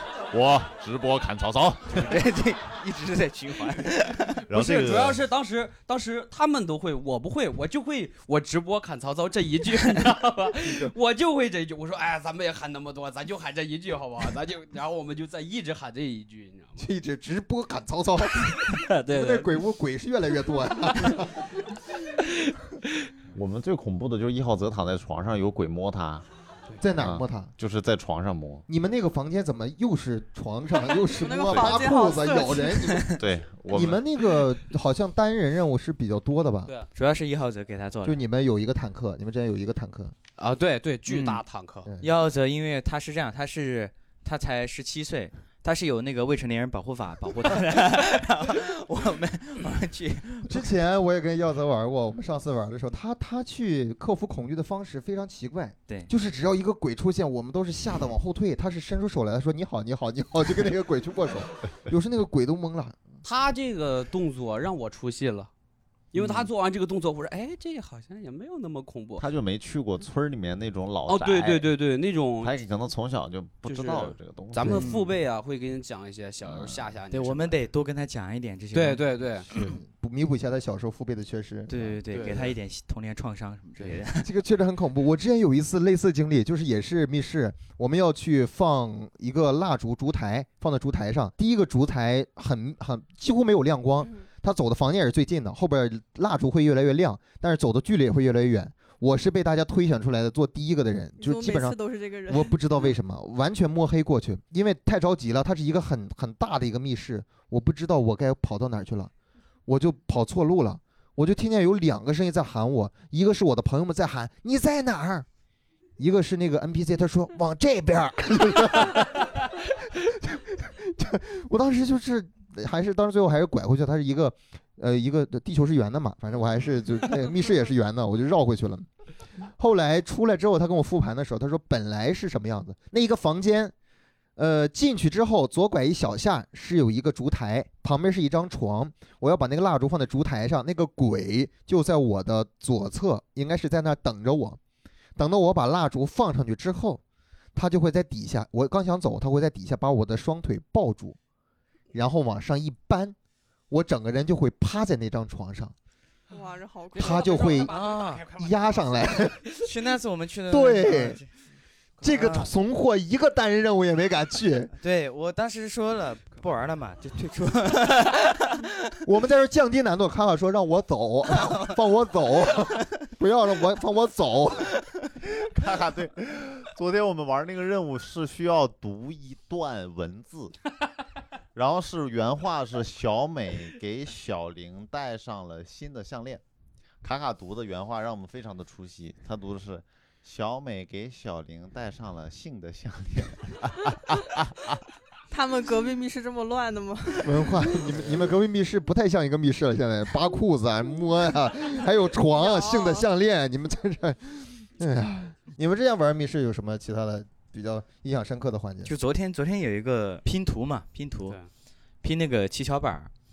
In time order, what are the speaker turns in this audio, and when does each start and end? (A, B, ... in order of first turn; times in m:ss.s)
0:00.3-0:02.1 A
0:01.9-0:04.4 B
0:04.5-0:05.2 A
0:04.5-0:16.9 C
0:16.8-0:21.5 D
0:18.7-0:19.6 C
0:23.3-0:26.2 A
0:26.8-0:27.5 D
0:27.0-0:28.6 A
0:28.7-0:33.2 D
0:31.1-0:32.9 E
0:31.5-0:31.8 A
0:33.1-0:34.0 A
0:33.7-0:36.7 D
0:37.0-0:38.2 B
0:38.0-0:40.1 D
0:40.4-0:41.9 C
0:41.1-0:41.4 B
0:41.9-0:42.1 D
0:42.0-0:50.7 B
0:50.5-1:03.0 D
1:03.2-1:05.5 C
1:06.1-1:09.2 C
1:09.2-1:11.7 A
1:11.1-1:12.6 C
1:12.4-1:14.9 A
1:13.6-1:17.6 C
1:14.8-1:15.1 B
1:16.4-1:16.9 A
1:17.1-1:19.0 B
1:18.7-1:19.5 C
1:19.5-1:22.3 D
1:21.7-1:24.3 B
1:22.1-1:22.5 C
1:24.2-1:49.1 D
1:41.2-1:42.6 E
1:49.7-1:55.2 D
1:56.0-2:08.9 D
2:09.6-2:13.7 D
2:14.4-2:24.6 D
2:25.2-2:27.0 D
2:27.5-2:31.2 D
2:31.9-2:33.2 D
2:33.7-2:35.8 D
2:36.3-2:37.7 E
2:37.0-2:37.7 D
2:37.0-2:38.3 C
2:37.7-2:38.2 B
2:38.3-2:39.5 D
2:39.5-2:41.3 B
2:40.5-2:41.2 D
2:42.0-2:44.7 D
2:42.0-2:42.5 B
2:44.8-2:48.7 B
2:49.0-2:54.7 D
2:55.2-3:00.6 A
3:01.6-3:06.4 A
3:07.0-3:14.8 A
3:15.3-3:17.8 E
3:17.2-3:28.9 D
3:22.4-3:23.1 E
3:28.8-3:31.4 B
3:32.0-3:33.1 B